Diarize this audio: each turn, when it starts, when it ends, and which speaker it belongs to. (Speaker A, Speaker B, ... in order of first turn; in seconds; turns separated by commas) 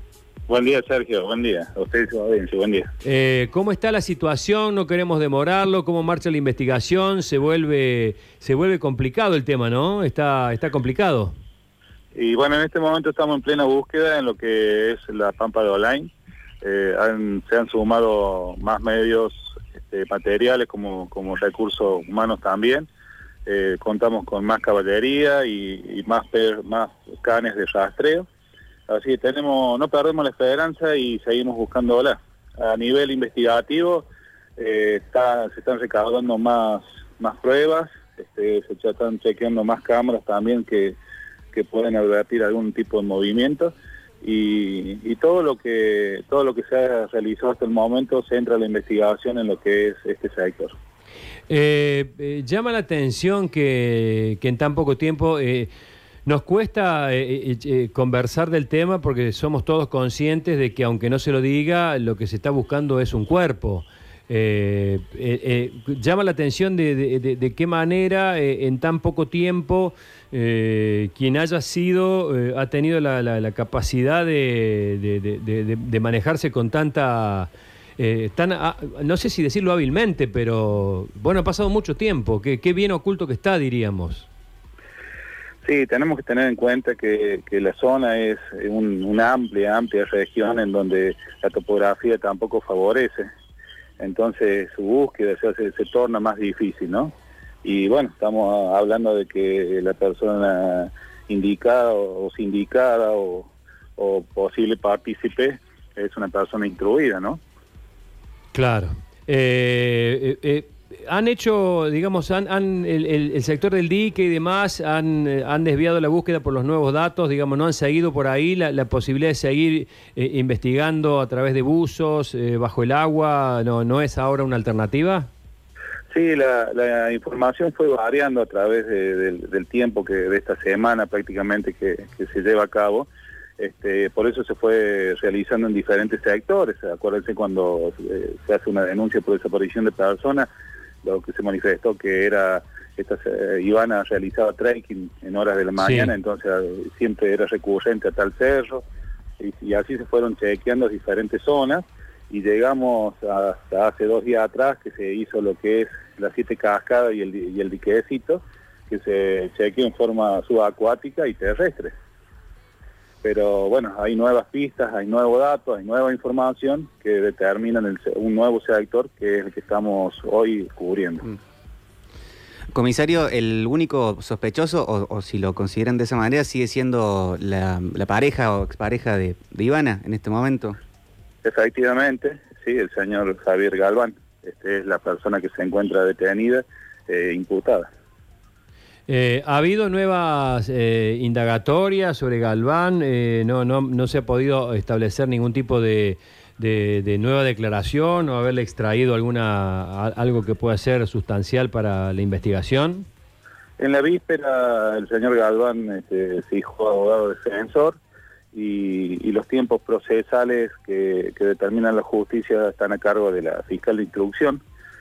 Speaker A: 0.5-2.9, Speaker B: 3.0-11.3, Speaker A: 12.2-16.1, Speaker A: 16.6-22.9, Speaker A: 23.5-28.3, Speaker A: 28.9-34.1, Speaker A: 34.6-41.0, Speaker A: 41.5-50.8, Speaker B: 51.5-55.7, Speaker B: 56.3-84.3, Speaker A: 85.6-93.3, Speaker A: 94.0-97.1, Speaker A: 97.6-107.4, Speaker B: 108.5-125.3, Speaker A: 126.1-140.5, Speaker A: 141.0-148.8, Speaker B: 145.8-146.1, Speaker A: 149.4-161.9, Speaker A: 163.2-171.2, Speaker C: 172.7-180.8, Speaker A: 181.4-187.9, Speaker B: 189.1-203.1, Speaker A: 203.8-208.0, Speaker A: 208.5-214.6